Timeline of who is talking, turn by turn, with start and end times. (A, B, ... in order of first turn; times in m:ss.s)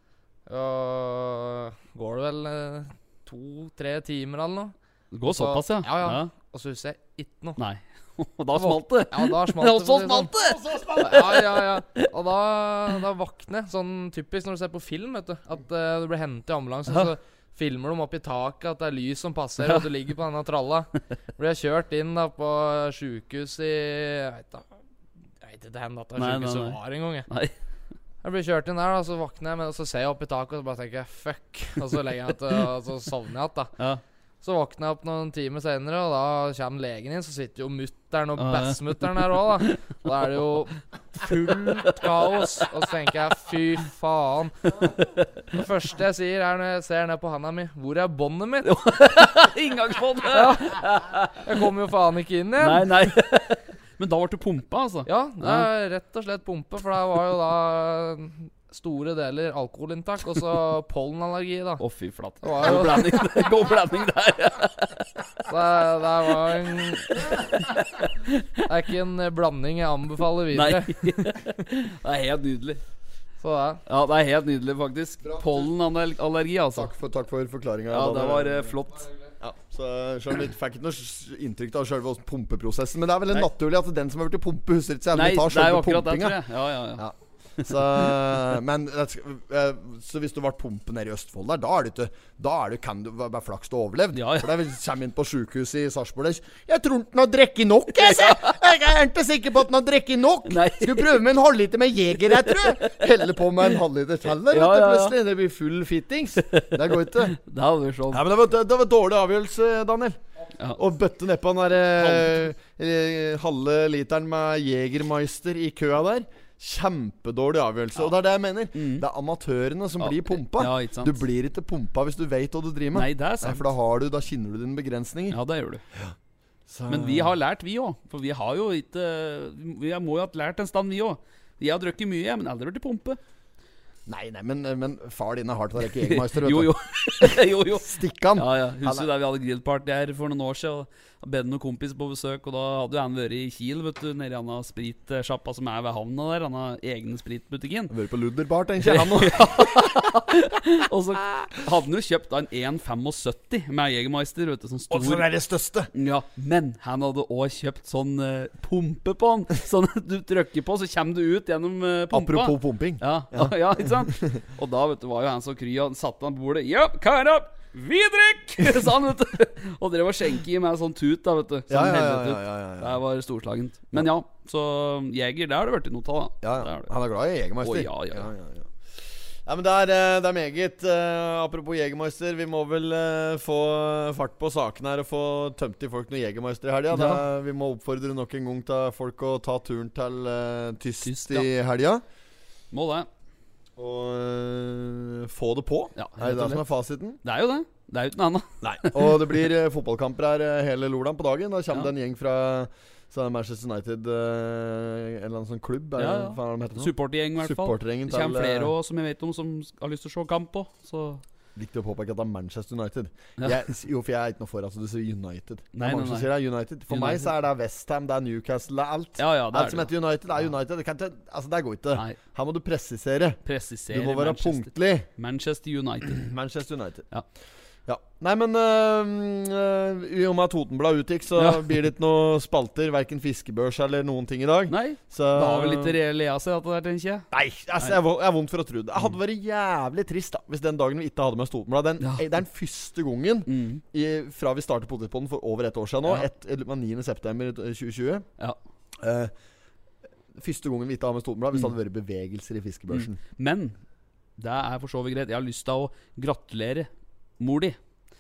0:00.5-0:07.6 A
0:05.1-0:06.3 B
0:07.6-0:12.1 B
0:08.6-0:24.6 A
0:19.6-0:19.9 B
0:25.4-0:27.3 A
0:26.2-0:27.5 B
0:28.2-0:33.7 A
0:34.4-0:44.9 A
0:38.4-0:39.7 B
0:41.8-0:42.6 B
0:45.5-0:48.8 A
0:48.6-0:51.4 B
0:50.3-0:53.1 A
0:52.6-0:55.7 B
0:55.1-1:01.8 A
1:01.8-1:05.2 B
1:02.4-1:03.7 A
1:05.5-1:07.5 A
1:07.2-1:08.4 B
1:08.6-1:11.4 A
1:10.5-1:12.8 B
1:13.4-1:13.8 A
1:13.9-1:16.9 B
1:15.3-1:15.6 C
1:16.7-1:18.7 C
1:17.9-1:19.1 B
1:19.4-1:26.4 C
1:25.1-1:27.0 B
1:27.0-1:47.4 C
1:34.1-1:34.5 B
1:38.0-1:38.6 B
1:40.5-1:41.2 B
1:42.3-1:43.0 B
1:44.4-1:45.2 B
1:46.5-1:48.2 B
1:48.1-1:50.2 C
1:50.8-2:05.4 C
1:52.0-1:52.4 B
1:58.8-1:59.0 B
2:00.0-2:01.2 B
2:02.9-2:03.7 B
2:05.3-2:05.8 B
2:06.7-2:07.3 C
2:06.9-2:13.2 B
2:14.1-2:19.1 C
2:16.0-2:27.9 B
2:27.9-2:30.1 C
2:28.8-2:35.3 B
2:34.9-2:35.9 C
2:35.9-2:56.9 B
2:42.1-2:44.4 C
2:51.7-2:53.0 C
2:56.4-3:12.0 C
2:57.6-2:58.3 B
3:06.9-3:07.2 B
3:11.0-3:11.5 B
3:12.7-3:13.1 B
3:13.8-3:17.2 C
3:16.0-3:16.6 B
3:17.2-3:19.3 B
3:18.6-3:28.7 C
3:26.0-3:31.2 B
3:31.6-3:45.1 C
3:35.7-3:36.3 B
3:36.9-3:37.3 B
3:39.2-3:39.9 B
3:43.4-3:46.3 B
3:46.1-3:47.1 C
3:47.9-3:56.0 C
3:51.4-3:51.7 B
3:54.7-3:57.3 B
3:57.3-4:08.3 C
4:03.5-4:03.8 B
4:09.0-4:09.3 C
4:10.4-4:13.2 C
4:12.9-4:13.8 B
4:14.4-4:17.8 B